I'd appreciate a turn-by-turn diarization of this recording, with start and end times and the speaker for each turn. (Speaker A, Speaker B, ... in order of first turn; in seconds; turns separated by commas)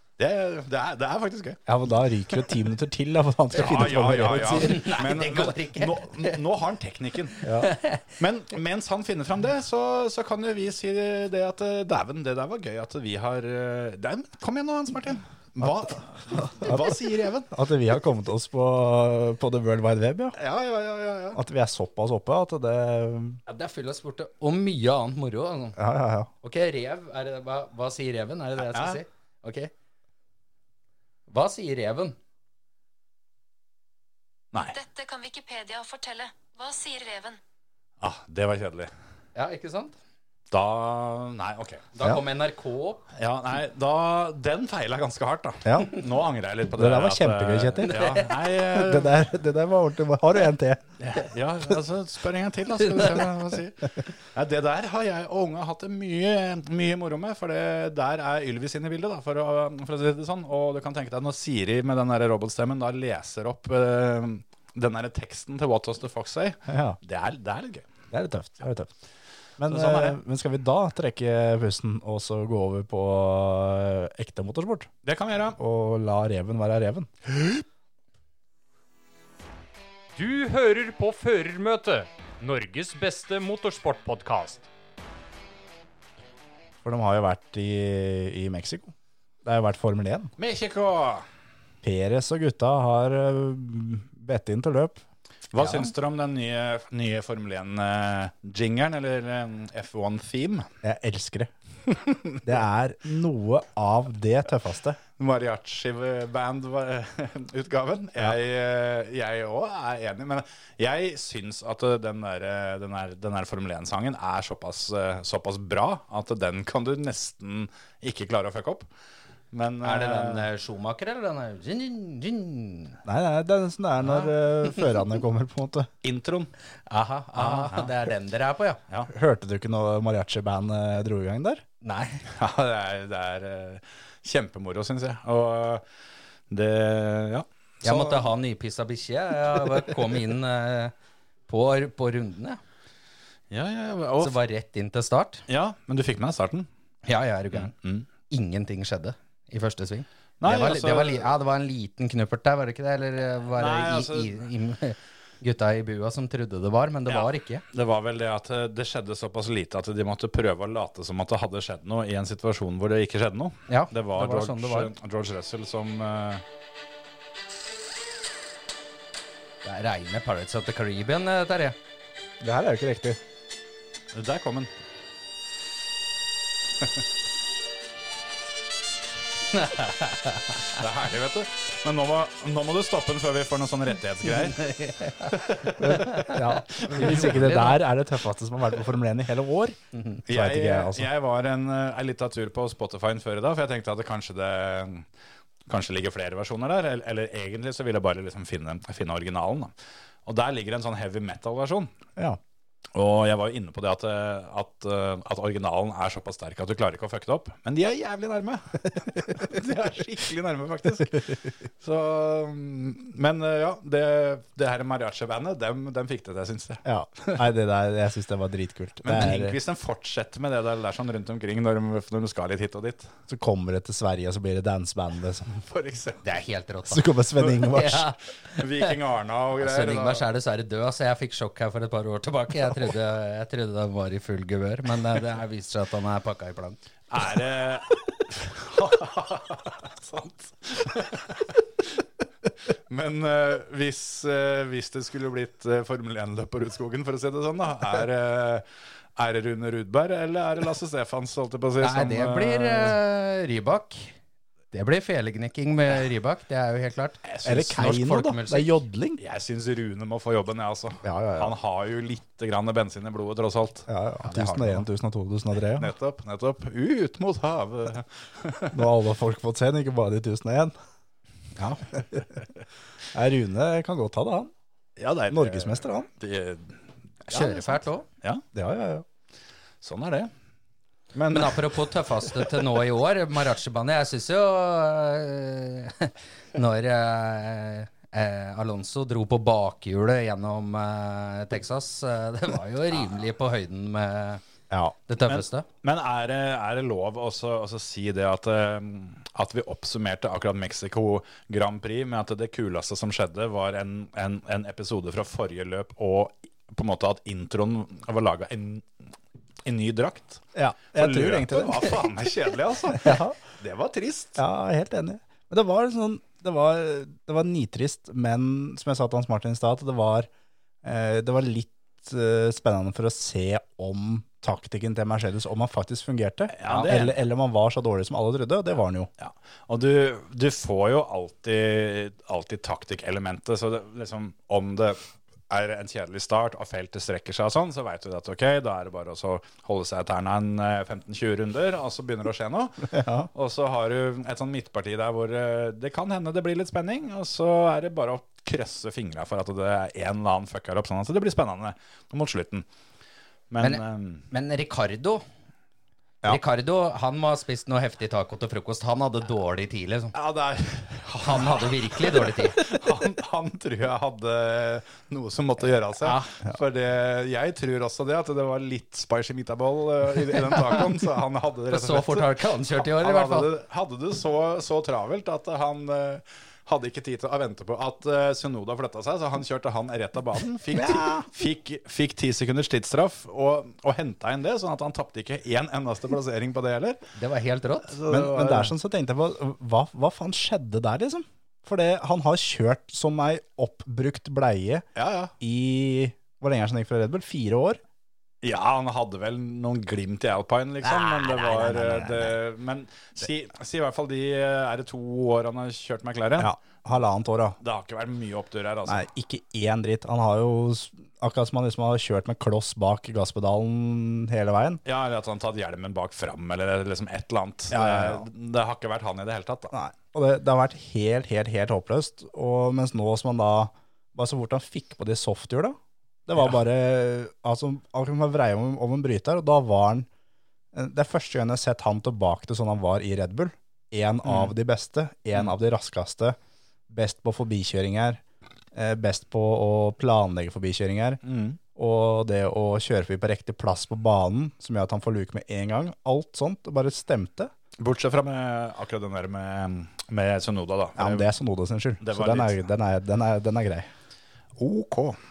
Speaker A: 0.2-1.6, Speaker B: 1.7-4.8, Speaker A: 3.5-7.4, Speaker C: 4.5-6.4, Speaker B: 7.4-7.7, Speaker C: 7.6-8.1, Speaker A: 8.2-17.5, Speaker B: 16.6-17.0, Speaker B: 17.5-20.4, Speaker A: 20.4-21.4, Speaker B: 21.3-23.4, Speaker C: 23.5-25.8, Speaker B: 25.8-26.3, Speaker C: 26.4-29.7, Speaker A: 28.6-29.0, Speaker C: 31.3-32.2, Speaker D: 34.7-37.4, Speaker A: 38.0-38.9, Speaker C: 39.3-39.9, Speaker A: 40.5-41.9, Speaker C: 41.9-43.0, Speaker A: 43.1-49.2, Speaker B: 45.6-45.9, Speaker B: 46.8-50.9, Speaker C: 47.9-48.3, Speaker A: 51.0-67.9, Speaker B: 66.7-67.0, Speaker B: 68.1-68.9, Speaker B: 69.6-74.9, Speaker A: 69.7-70.2, Speaker A: 75.0-75.6, Speaker B: 75.5-77.1, Speaker E: 80.2-84.7, Speaker B: 86.8-90.3, Speaker A: 90.4-91.2, Speaker B: 91.8-95.0, Speaker A: 95.5-100.7, Speaker B: 95.6-95.9, Speaker B: 100.8-101.5, Speaker A: 102.1-102.3, Speaker B: 102.4-105.0, Speaker A: 105.2-118.9, Speaker A: 119.5-120.5, Speaker C: 119.8-123.0, Speaker B: 123.0-125.9, Speaker A: 126.0-126.5, Speaker C: 126.9-128.8, Speaker A: 127.4-127.9, Speaker B: 129.1-131.6, Speaker C: 131.8-132.2, Speaker A: 132.3-135.8, Speaker A: 136.5-138.3, Speaker C: 137.8-140.9, Speaker C: 141.5-142.6, Speaker A: 143.5-144.3, Speaker C: 144.2-145.4, Speaker A: 145.5-146.7, Speaker C: 147.0-147.7, Speaker A: 147.5-148.1, Speaker C: 148.3-157.6, Speaker A: 150.4-151.2, Speaker A: 153.6-154.4, Speaker A: 157.1-166.4, Speaker C: 163.7-164.9, Speaker C: 169.6-171.8, Speaker B: 172.4-173.2, Speaker A: 174.1-174.7, Speaker C: 179.5-180.8, Speaker A: 180.7-187.3, Speaker C: 184.4-185.3, Speaker B: 185.8-191.1, Speaker C: 185.9-187.8, Speaker A: 190.3-195.1, Speaker A: 195.7-199.7, Speaker A: 200.2-201.9, Speaker A: 202.9-217.4, Speaker B: 216.8-219.6, Speaker A: 219.0-223.1, Speaker B: 223.3-225.6, Speaker A: 225.6-226.2, Speaker C: 226.2-228.9, Speaker B: 226.9-228.0, Speaker A: 228.5-230.2, Speaker C: 229.6-236.8, Speaker A: 237.1-241.5, Speaker A: 242.9-248.6, Speaker A: 249.2-253.0, Speaker C: 251.8-254.1, Speaker C: 254.7-258.7, Speaker A: 257.2-257.9, Speaker B: 257.4-259.2, Speaker A: 259.2-263.9, Speaker B: 261.0-261.5, Speaker B: 263.9-265.9, Speaker C: 264.2-264.8, Speaker A: 265.8-268.9, Speaker B: 268.7-270.7, Speaker A: 271.6-272.3, Speaker B: 273.1-274.5, Speaker A: 275.0-278.4, Speaker B: 275.3-276.1, Speaker C: 277.3-278.0, Speaker B: 278.5-279.0, Speaker A: 279.8-280.3, Speaker A: 281.1-281.8, Speaker C: 281.3-294.4, Speaker B: 294.7-295.0, Speaker C: 295.1-295.6, Speaker A: 295.3-308.9, Speaker A: 309.6-314.4, Speaker B: 310.5-311.9, Speaker B: 312.9-313.4, Speaker B: 314.4-320.3, Speaker B: 320.8-329.1, Speaker A: 326.5-327.2, Speaker A: 329.2-352.6, Speaker B: 342.9-343.3, Speaker A: 353.5-354.2, Speaker C: 353.6-355.2, Speaker C: 356.2-360.1, Speaker A: 360.1-387.0, Speaker C: 361.2-362.6, Speaker C: 366.0-366.3, Speaker C: 370.4-370.8, Speaker C: 371.7-373.5, Speaker B: 380.7-381.3, Speaker C: 387.1-387.9, Speaker A: 387.9-388.7, Speaker B: 388.1-394.9, Speaker A: 394.9-395.3, Speaker B: 395.4-397.8, Speaker A: 398.4-406.5, Speaker B: 400.8-402.4, Speaker B: 406.4-407.6, Speaker A: 407.6-409.1, Speaker B: 408.9-414.8, Speaker A: 414.8-419.7, Speaker B: 417.7-418.2, Speaker B: 419.7-430.1, Speaker B: 430.7-436.4, Speaker A: 434.2-434.5, Speaker B: 436.9-438.2, Speaker B: 438.7-441.2, Speaker A: 441.2-441.6, Speaker B: 441.7-447.5, Speaker A: 447.8-451.3, Speaker B: 451.0-453.9, Speaker A: 452.0-452.6, Speaker A: 454.6-455.2